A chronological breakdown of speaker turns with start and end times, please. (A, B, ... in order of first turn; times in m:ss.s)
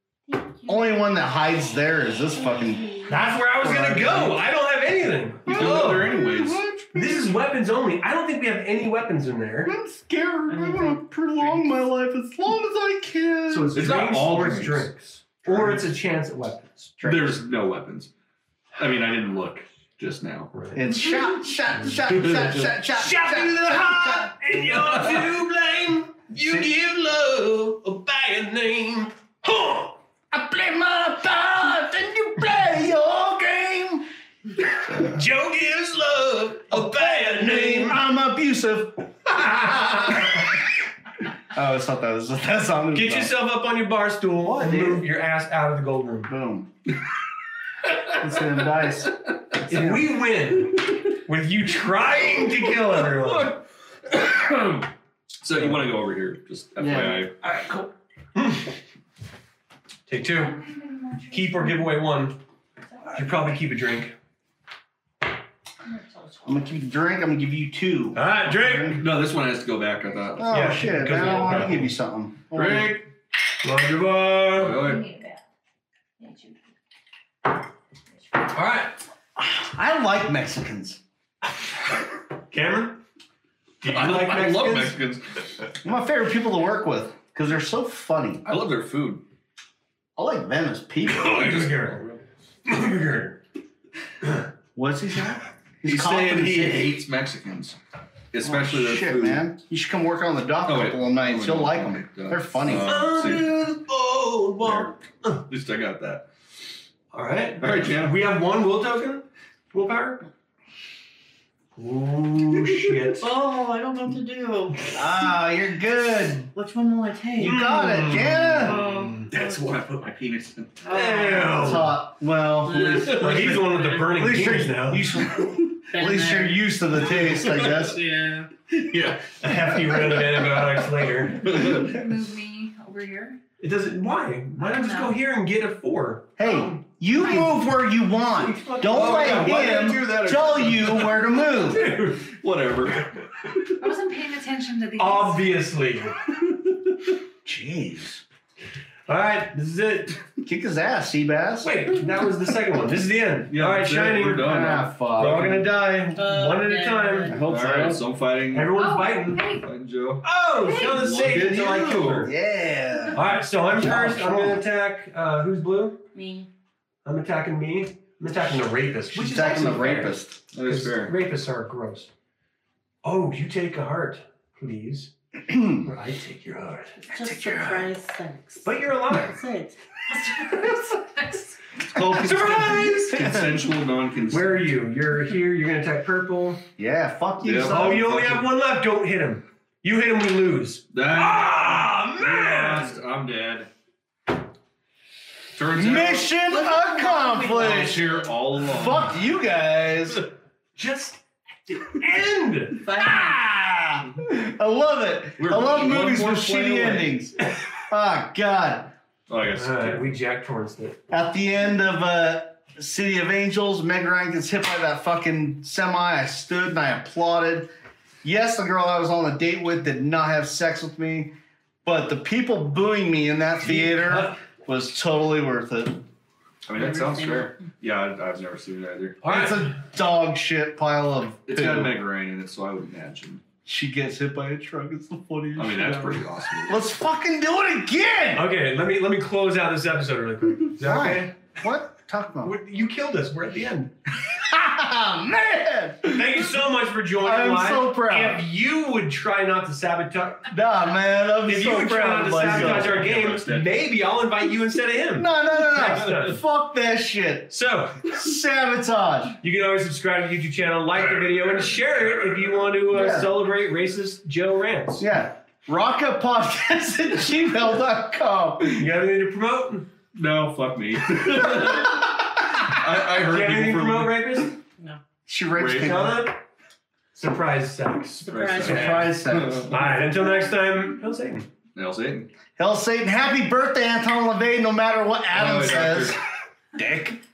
0:00.3-0:01.5 A
0:00.7-0:04.4 B
0:03.1-0:06.2 C
0:05.4-0:06.6 D
0:05.4-0:07.4 B
0:06.9-0:09.7 C
0:09.6-0:13.8 B
0:10.5-0:11.8 E
0:13.5-0:16.9 C
0:13.7-0:14.9 D
0:15.5-0:15.8 D
0:17.0-0:17.4 B
0:17.0-0:18.1 D
0:18.7-0:20.5 D
0:20.5-0:21.0 C
0:20.7-0:24.4 B
0:21.7-0:30.0 C
0:24.6-0:25.3 D
0:26.4-0:26.7 B
0:30.3-0:34.0 B
0:34.8-0:38.0 C
0:34.9-0:35.2 B
0:36.7-0:40.5 B
0:41.5-0:43.3 B
0:42.9-0:46.3 C
0:44.6-0:45.1 B
0:46.3-0:46.7 B
0:48.1-0:49.1 B
0:49.7-0:53.6 C
0:49.7-0:50.0 B
0:52.4-0:54.9 D
0:55.4-0:57.3 D
0:56.8-0:57.8 B
0:57.4-0:57.8 C
0:58.3-0:58.7 C
1:00.1-1:00.6 C
1:00.2-1:02.0 A
1:01.3-1:02.4 C
1:03.0-1:04.1 C
1:05.8-1:06.4 A
1:06.4-1:09.0 B
1:08.1-1:09.0 C
1:08.8-1:11.8 D
1:10.4-1:13.0 B
1:10.5-1:11.9 C
1:12.5-1:13.0 D
1:13.6-1:14.8 C
1:14.5-1:15.0 D
1:14.7-1:15.4 A
1:16.2-1:16.5 A
1:18.5-1:19.0 C
1:19.4-1:21.0 B
1:22.5-1:23.0 C
1:23.8-1:25.0 C
1:23.8-1:25.5 D
1:25.8-1:28.4 B
1:28.4-1:29.2 D
1:30.2-1:31.6 B
1:31.0-1:32.0 C
1:31.1-1:32.3 D
1:32.6-1:33.4 C
1:34.8-1:37.0 B
1:35.8-1:37.8 D
1:38.3-1:39.5 D
1:38.4-1:43.1 B
1:40.6-1:43.6 D
1:42.6-1:45.4 C
1:44.6-1:44.9 D
1:45.4-1:46.3 D
1:47.1-1:50.3 C
1:47.6-1:48.3 D
1:51.8-1:53.3 C
1:53.2-1:54.9 E
1:54.9-1:56.5 B
1:56.5-1:57.7 E
1:57.4-1:58.8 B
1:57.4-1:59.3 C
1:58.6-1:59.6 E
1:59.2-2:00.8 D
2:00.8-2:01.8 E
2:00.9-2:02.0 C
2:01.5-2:03.4 B
2:02.6-2:04.5 E
2:02.8-2:03.7 D
2:03.0-2:05.1 C
2:04.1-2:08.0 B
2:05.9-2:06.6 E
2:07.1-2:07.9 D
2:07.4-2:08.5 E
2:08.7-2:11.9 D
2:09.4-2:11.5 C
2:11.4-2:13.4 A
2:13.6-2:16.4 C
2:14.6-2:15.2 A
2:16.4-2:21.9 B
2:16.4-2:17.6 A
2:17.2-2:17.6 C
2:18.2-2:20.1 C
2:18.8-2:23.1 D
2:21.6-2:22.2 C
2:23.8-2:25.5 A
2:25.0-2:26.2 C
2:27.4-2:28.2 B
2:29.1-2:30.2 C
2:30.4-2:31.8 B
2:31.6-2:37.4 C
2:33.5-2:35.7 D
2:34.4-2:35.5 B
2:36.1-2:37.4 E
2:37.3-2:38.0 B
2:37.4-2:38.7 D
2:38.5-2:39.6 C
2:38.7-2:39.7 A
2:39.6-2:42.3 D
2:40.2-2:42.3 C
2:42.2-2:44.6 B
2:43.1-2:46.0 C
2:46.1-2:46.5 E
2:47.0-2:52.1 C
2:49.1-2:50.4 B
2:50.5-2:51.1 D
2:53.0-2:55.1 C
2:55.5-2:55.8 B
2:55.7-2:57.0 C
2:57.1-2:59.8 E
2:57.1-2:57.9 B
2:58.6-2:59.4 C
3:00.1-3:01.6 A
3:01.9-3:04.7 D
3:01.9-3:03.6 B
3:02.0-3:03.5 C
3:04.3-3:06.6 C
3:06.8-3:08.2 B
3:07.4-3:08.5 D
3:07.6-3:12.9 C
3:10.9-3:13.7 D
3:15.5-3:16.3 D
3:15.7-3:20.2 B
3:16.5-3:18.2 C
3:17.6-3:19.2 D
3:20.7-3:22.9 C
3:22.8-3:23.4 E
3:22.9-3:27.3 B
3:25.4-3:27.2 D
3:27.9-3:28.9 B
3:29.3-3:30.1 D
3:29.5-3:31.0 C
3:31.1-3:37.7 B
3:38.2-3:41.3 B
3:41.8-3:46.0 B
3:43.6-3:44.4 C
3:46.6-3:49.2 D
3:46.7-3:47.6 E
3:49.2-3:49.8 C
3:49.2-3:52.0 B
3:51.5-3:53.4 D
3:53.6-3:58.5 B
3:55.6-3:56.9 D
3:58.3-4:01.3 C
4:00.8-4:02.6 B
4:02.4-4:03.9 C
4:04.1-4:06.6 B
4:06.1-4:10.5 C
4:07.2-4:08.4 B
4:10.5-4:13.0 B
4:11.4-4:16.4 C
4:12.4-4:13.8 D
4:15.1-4:17.5 B
4:17.5-4:18.2 C
4:18.0-4:19.4 B
4:19.4-4:25.1 C
4:21.0-4:22.9 D
4:22.9-4:23.4 B
4:25.0-4:28.9 B
4:28.7-4:29.9 C
4:30.1-4:34.5 D
4:31.4-4:31.7 C
4:33.1-4:34.5 C
4:35.2-4:36.3 B
4:35.6-4:36.4 C
4:35.6-4:36.0 D
4:37.1-4:41.5 C
4:38.2-4:39.1 E
4:38.2-4:39.9 D
4:38.6-4:39.7 B
4:41.7-4:42.3 D
4:42.6-4:46.2 B
4:45.3-4:46.2 D
4:46.8-4:47.1 C